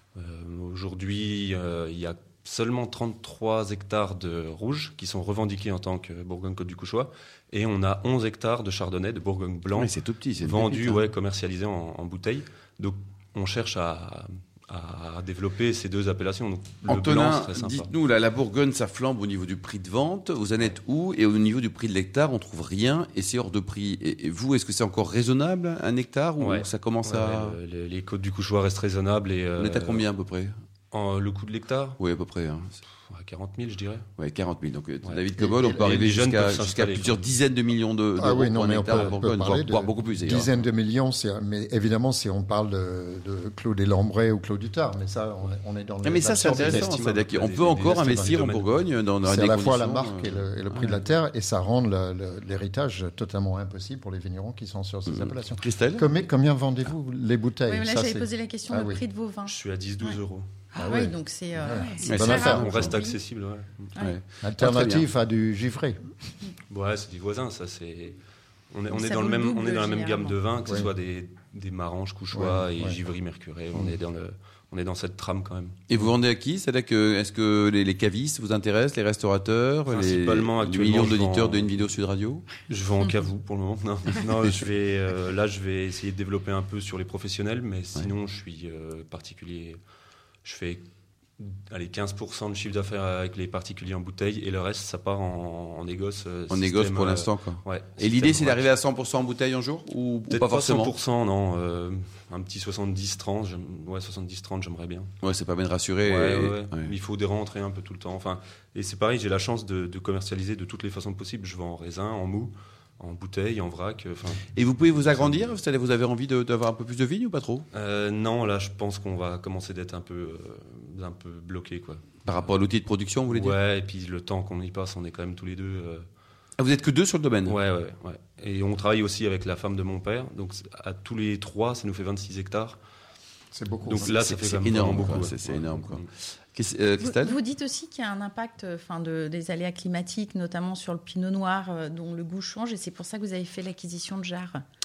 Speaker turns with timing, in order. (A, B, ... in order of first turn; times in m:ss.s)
0:00.2-0:17.9 A
0:09.7-0:11.1 B
0:16.8-0:27.6 B
0:26.4-0:30.1 A
0:29.6-0:30.5 B
0:30.9-0:32.0 A
0:32.0-0:32.8 B
0:33.1-0:34.1 A
0:34.2-0:40.5 B
0:35.0-0:37.3 A
0:35.4-0:35.8 C
0:38.2-0:48.4 C
0:46.0-0:51.0 B
0:46.4-0:48.9 A
0:49.2-0:59.0 C
0:55.1-0:56.1 B
0:57.7-1:00.2 D
0:59.5-1:00.5 A
1:00.8-1:03.2 D
1:00.8-1:02.9 C
1:02.0-1:03.0 B
1:02.3-1:03.9 A
1:04.0-1:05.1 B
1:04.4-1:06.0 C
1:06.7-1:08.2 A
1:08.7-1:15.8 A
1:08.9-1:10.4 D
1:10.6-1:10.9 C
1:12.3-1:13.0 C
1:15.9-1:22.5 B
1:19.9-1:21.8 A
1:22.7-1:29.8 A
1:30.4-1:30.8 A
1:31.4-1:38.8 A
1:36.5-1:41.0 B
1:40.3-1:45.1 A
1:45.2-1:46.9 B
1:46.0-1:55.6 A
1:54.6-1:57.6 B
1:57.7-2:02.5 A
2:02.2-2:03.6 B
2:03.3-2:06.0 A
2:06.6-2:07.6 B
2:07.5-2:12.8 A
2:13.5-2:14.1 C
2:13.9-2:16.1 A
2:13.9-2:16.0 B
2:16.6-2:17.4 B
2:17.0-2:24.6 D